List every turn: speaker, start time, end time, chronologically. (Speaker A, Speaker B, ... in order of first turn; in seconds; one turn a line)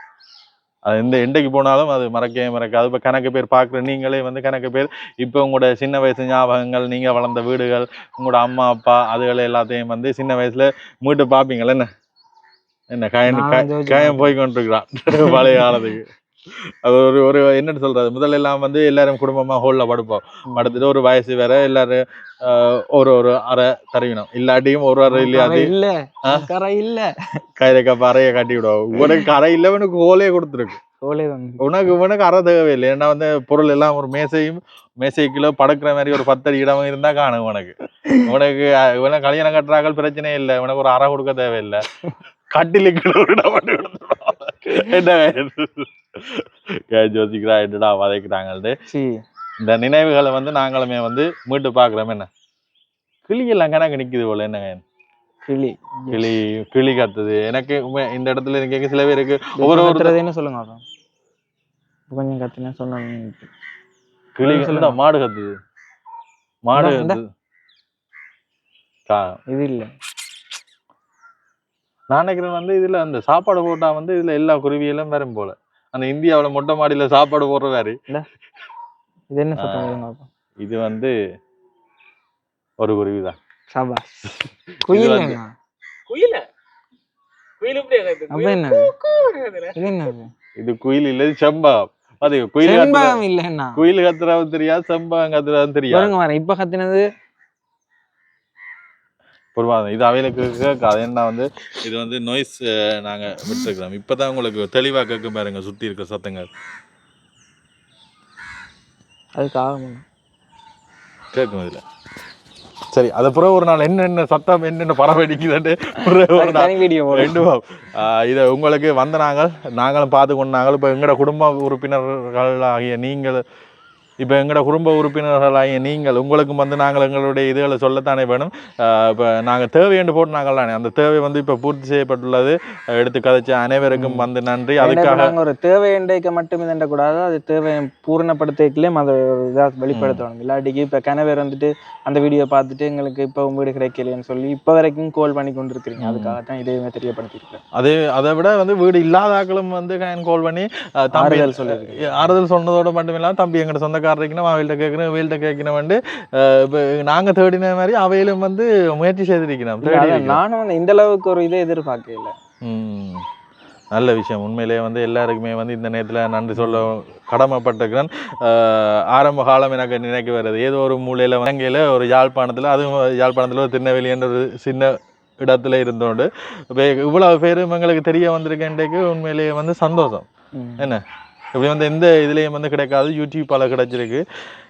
Speaker A: 0.9-11.9
Speaker A: 12.9-16.1
Speaker B: 13.3-14.3
Speaker B: 15.2-15.9
Speaker A: 16.8-25.7
Speaker B: 20.5-20.8
Speaker B: 25.1-27.1
Speaker A: 27.6-30.8
Speaker B: 29.0-29.3
Speaker B: 31.0-31.6
Speaker A: 31.6-41.9
Speaker A: 42.5-48.8
Speaker B: 48.9-49.2
Speaker A: 49.6-52.3
Speaker A: 53.3-54.8
Speaker B: 55.5-56.3
Speaker A: 56.1-60.1
Speaker B: 59.6-60.8
Speaker B: 62.1-63.5
Speaker A: 64.4-65.5
Speaker B: 64.5-65.0
Speaker A: 66.7-67.2
Speaker B: 66.8-67.2
Speaker A: 69.1-69.4
Speaker B: 69.5-69.9
Speaker A: 72.1-78.0
Speaker B: 79.3-80.3
Speaker A: 79.6-80.0
Speaker A: 80.6-81.1
Speaker A: 82.8-83.4
Speaker B: 83.7-84.3
Speaker B: 84.9-85.5
Speaker A: 84.9-85.4
Speaker C: 86.1-86.5
Speaker C: 87.6-89.8
Speaker B: 88.3-88.9
Speaker B: 89.8-90.3
Speaker A: 90.6-93.2
Speaker B: 92.6-93.8
Speaker A: 93.8-96.1
Speaker B: 95.9-97.1
Speaker A: 99.5-106.5
Speaker B: 109.3-110.0
Speaker A: 111.3-111.8
Speaker A: 112.9-123.4
Speaker B: 116.3-117.5
Speaker A: 124.2-135.3
Speaker B: 133.9-134.3
Speaker B: 134.8-147.6
Speaker A: 139.9-140.2
Speaker A: 146.0-146.4
Speaker A: 147.8-160.4
Speaker B: 151.1-152.3
Speaker B: 159.8-162.3
Speaker A: 162.6-163.2
Speaker A: 163.9-180.3
Speaker B: 166.6-166.9
Speaker B: 180.5-180.9
Speaker A: 181.6-184.2